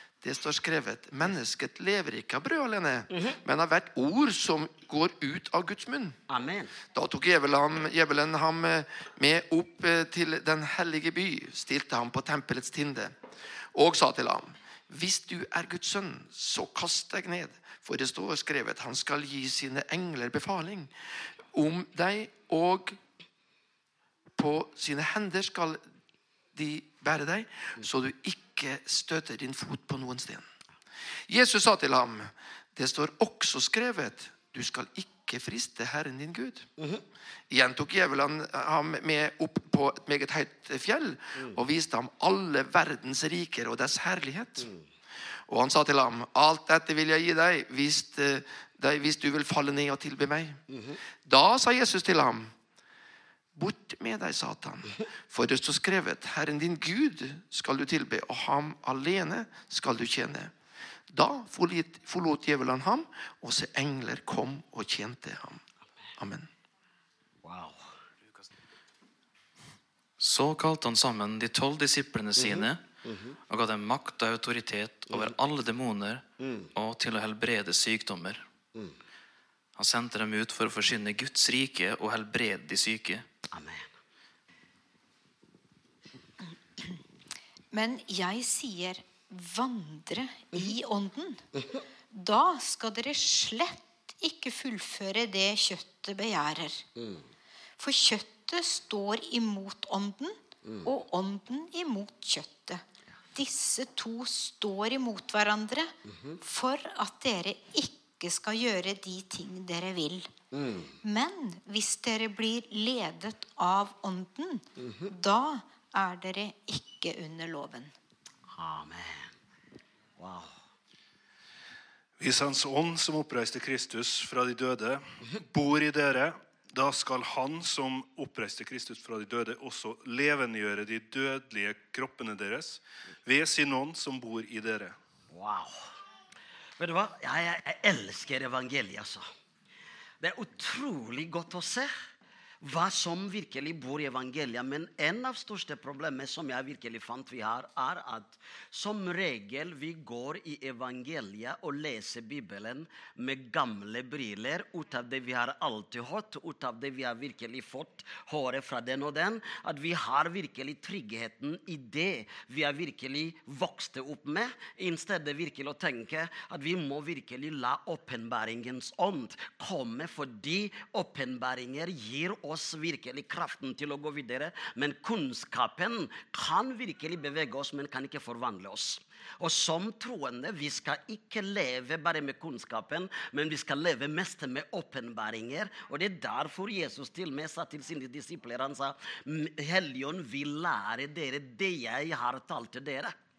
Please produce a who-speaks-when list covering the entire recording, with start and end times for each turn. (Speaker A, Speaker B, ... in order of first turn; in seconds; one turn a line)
Speaker A: 0.2-6.2
Speaker B: 6.3-6.7
Speaker A: 6.9-13.2
Speaker A: 13.7-20.9
Speaker A: 21.5-23.0
Speaker A: 24.4-25.8
Speaker A: 26.5-30.4
Speaker A: 31.3-36.7
Speaker B: 36.8-37.0
Speaker A: 37.5-44.7
Speaker A: 45.5-50.6
Speaker B: 50.7-51.0
Speaker A: 51.2-52.5
Speaker A: 53.5-60.5
Speaker A: 61.1-65.6
Speaker A: 66.2-66.5
Speaker B: 67.4-67.9
Speaker C: 70.2-72.8
Speaker B: 72.4-73.3
Speaker C: 73.5-78.4
Speaker B: 76.4-76.7
Speaker C: 79.8-83.2
Speaker B: 83.5-83.9
Speaker D: 87.7-91.5
Speaker D: 92.1-96.8
Speaker B: 97.0-97.2
Speaker D: 97.8-102.8
Speaker D: 103.3-110.3
Speaker B: 110.5-110.9
Speaker D: 111.0-117.9
Speaker B: 114.8-115.1
Speaker B: 118.5-119.3
Speaker B: 120.2-120.6
Speaker E: 122.2-135.0
Speaker B: 135.3-135.9
Speaker B: 136.8-139.3
Speaker B: 140.2-141.9
Speaker B: 142.6-193.1